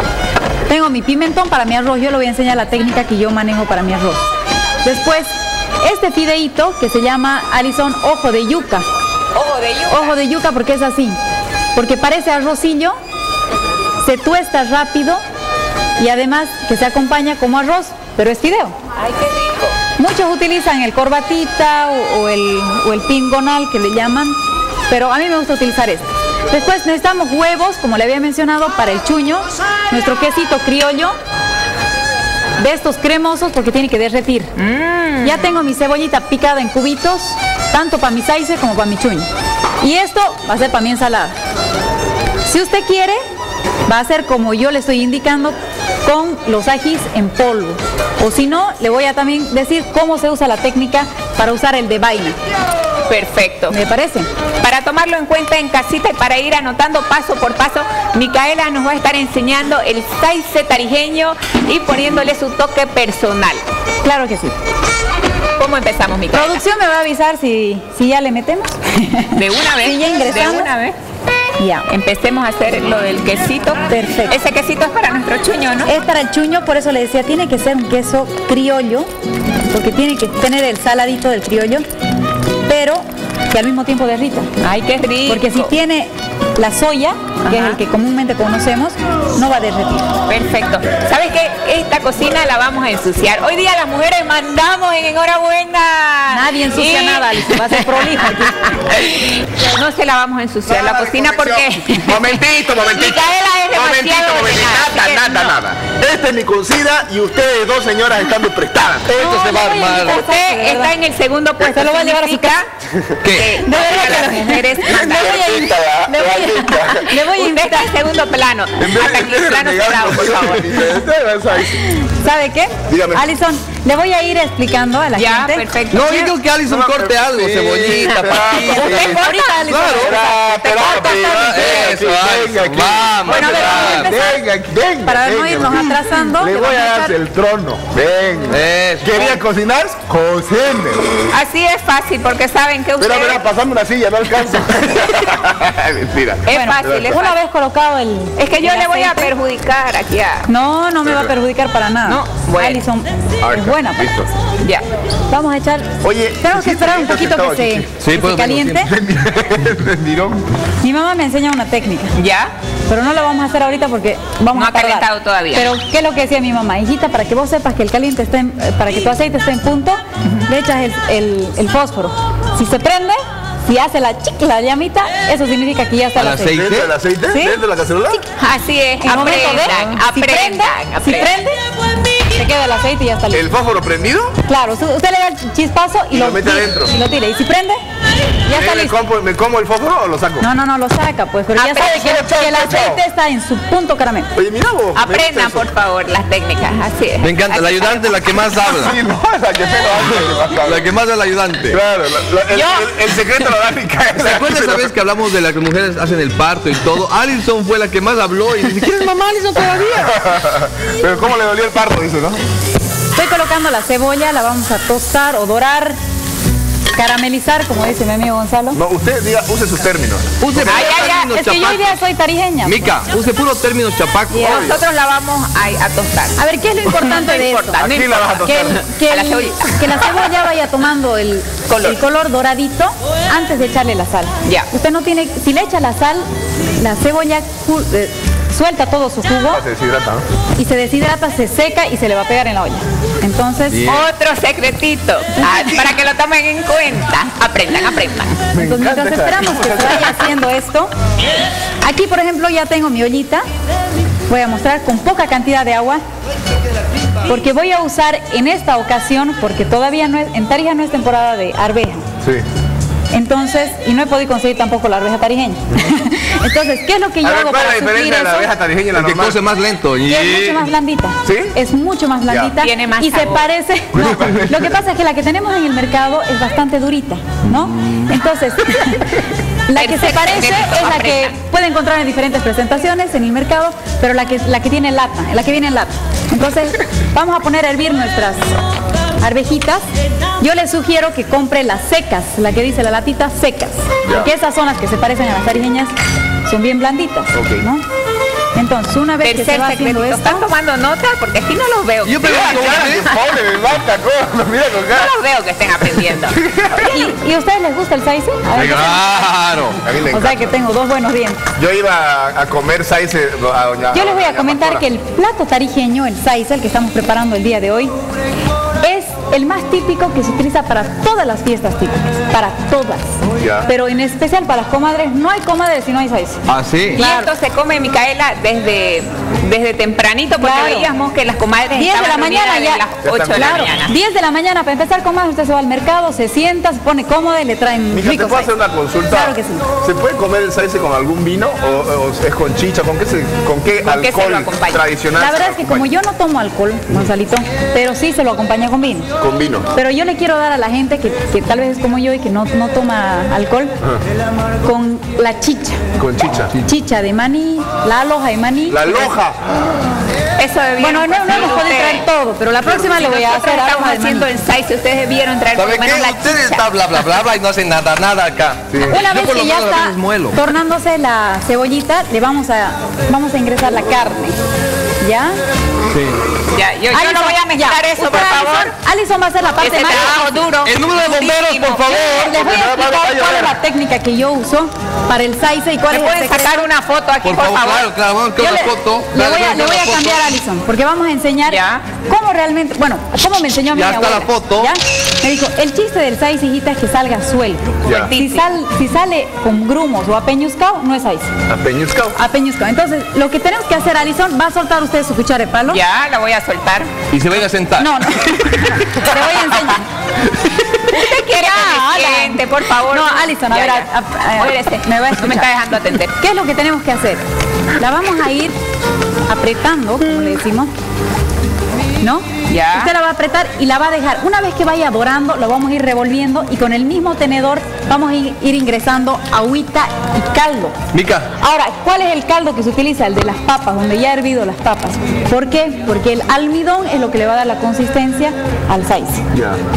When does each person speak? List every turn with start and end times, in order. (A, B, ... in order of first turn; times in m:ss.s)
0:00.7-0:04.3 A
0:04.8-0:08.9 A
0:09.3-0:10.2 B
0:09.9-0:11.2 A
0:11.8-0:13.0 A
0:14.0-0:15.2 A
0:16.0-0:18.8 A
0:19.0-0:19.8 B
0:20.0-0:31.2 A
0:32.6-0:34.5 A
0:34.6-0:35.5 B
0:35.2-0:39.3 A
0:39.8-0:41.4 A
0:42.4-0:43.2 A
0:43.9-0:52.4 A
0:53.1-0:53.8 B
0:53.7-0:54.3 A
0:54.6-1:03.6 B
1:04.0-1:04.6 A
1:05.6-1:06.6 B
1:06.3-1:10.7 A
1:09.4-1:11.0 B
1:11.6-1:11.9 A
1:11.9-1:15.9 B
1:13.9-1:14.4 A
1:15.9-1:19.1 A
1:19.7-1:21.8 A
1:22.7-1:24.5 A
1:24.6-1:25.7 B
1:25.3-1:30.1 A
1:27.5-1:27.8 B
1:30.3-1:42.4 B
1:36.3-1:38.6 A
1:40.7-1:49.3 C
1:42.9-1:45.5 B
1:49.1-1:50.2 D
1:49.2-1:50.9 A
1:50.0-1:52.7 B
1:51.6-1:52.6 A
1:53.2-1:53.6 D
1:53.2-1:55.6 B
1:53.6-1:57.9 A
1:54.9-1:57.1 C
1:57.1-2:00.8 B
1:58.8-2:01.8 C
2:01.6-2:05.7 A
2:02.9-2:03.3 C
2:05.2-2:06.3 B
2:05.9-2:10.2 D
2:06.6-2:21.1 C
2:08.2-2:12.0 B
2:08.5-2:11.6 A
2:10.9-2:14.1 D
2:13.3-2:14.4 A
2:15.0-2:17.1 A
2:18.5-2:19.4 D
2:21.3-2:23.4 B
2:23.0-2:27.2 C
2:26.5-2:27.4 B
2:26.5-2:29.3 A
2:28.4-2:30.5 B
2:30.5-2:34.1 A
2:31.0-2:31.3 C
2:32.1-2:32.8 B
2:33.4-2:34.3 C
2:35.3-2:38.9 A
2:36.0-2:37.9 C
2:38.0-2:38.9 D
2:38.8-2:40.5 C
2:40.8-2:42.1 A
2:42.2-2:42.5 B
2:42.9-2:56.6 A
2:44.5-2:45.7 B
2:56.2-2:56.9 D
2:56.5-2:58.2 C
2:57.3-2:57.6 A
2:58.4-3:01.3 B
2:59.0-3:01.6 A
3:02.4-3:03.5 A
3:03.3-3:04.4 C
3:04.5-3:07.8 A
3:06.1-3:07.0 C
3:08.4-3:09.0 A
3:08.5-3:10.5 C
3:10.4-3:14.3 A
3:11.6-3:13.0 C
3:14.4-3:15.7 C
3:15.0-3:18.7 B
3:17.2-3:19.0 D
3:18.7-3:20.9 C
3:20.2-3:21.8 D
3:21.7-3:24.9 C
3:22.5-3:22.9 B
3:24.2-3:30.2 D
3:29.7-3:32.4 C
3:33.2-3:36.0 A
3:36.9-3:38.8 A
3:38.7-3:41.1 C
3:40.4-3:42.0 D
3:40.6-3:41.3 B
3:41.2-3:42.9 A
3:42.6-3:44.7 D
3:44.3-3:44.7 A
3:44.4-3:50.3 B
3:44.4-3:44.8 C
3:46.4-3:47.8 A
3:47.8-3:48.8 C
3:48.4-3:59.6 A
3:51.7-3:52.0 B
3:59.5-4:00.3 C
4:00.6-4:03.9 A
4:03.7-4:04.1 D
4:03.8-4:08.4 B
4:08.5-4:10.2 C
4:08.6-4:10.9 A
4:11.8-4:13.4 A
4:14.3-4:16.0 A
4:17.2-4:22.1 A
4:22.2-4:22.5 C
4:23.1-4:28.5 A
4:27.2-4:29.4 C
4:28.9-4:30.7 D
4:30.1-4:48.6 A
4:31.2-4:31.6 C
4:32.3-4:32.5 C
4:32.6-4:33.5 B
4:33.9-4:34.8 C
4:37.5-4:38.1 D
4:39.8-4:41.4 B
4:49.2-4:49.9 A
4:50.4-4:57.8 A
4:54.0-4:54.3 C
4:57.3-4:57.7 C
4:58.6-5:00.5 A
4:59.2-5:03.2 B
5:02.0-5:03.1 D
5:02.2-5:05.1 C
5:04.9-5:07.0 B
5:06.3-5:07.0 C
5:06.8-5:09.3 A
5:08.5-5:09.8 D
5:09.8-5:10.6 C
5:10.1-5:11.5 A
5:11.6-5:14.8 C
5:13.9-5:17.9 A
5:18.8-5:27.3 A
5:23.4-5:23.7 C
5:26.5-5:27.0 D
5:27.0-5:33.9 B
5:30.4-5:30.9 A
5:31.7-5:38.5 A
5:33.0-5:33.7 C
5:37.9-5:45.9 C
5:39.1-5:39.7 A
5:43.8-5:44.8 B
5:45.2-5:49.1 A
5:49.2-5:49.7 C
5:49.7-5:53.8 A
5:54.6-5:55.8 A
5:56.0-5:56.6 C
5:56.6-5:59.1 A
5:58.7-6:00.0 C
6:00.4-6:02.1 B
6:00.8-6:04.3 A
6:02.7-6:06.7 B
6:05.5-6:10.4 D
6:08.7-6:09.0 C
6:08.9-6:14.4 A
6:15.0-6:15.4 A
6:15.9-6:16.2 D
6:16.5-6:18.7 B
6:16.9-6:20.4 A
6:19.6-6:22.2 B
6:20.6-6:22.4 D
6:22.0-6:23.6 C
6:22.1-6:26.7 A
6:25.9-6:27.9 B
6:27.2-6:30.3 D
6:28.4-6:41.3 A
6:31.5-6:31.8 B
6:33.7-6:34.7 D
6:37.8-6:38.1 C
6:37.8-6:38.5 B
6:41.5-6:42.2 C
6:42.2-6:45.8 A
6:45.7-6:47.0 B
6:47.1-6:49.7 D
6:47.8-6:49.9 A
6:50.9-6:55.5 A
6:50.9-6:56.1 B
6:56.1-6:57.2 A
6:57.8-6:58.6 A
6:59.3-7:00.7 A
7:02.0-7:10.8 A
7:02.5-7:02.9 B
7:10.9-7:11.3 D
7:11.4-7:19.2 A
7:19.3-7:19.7 C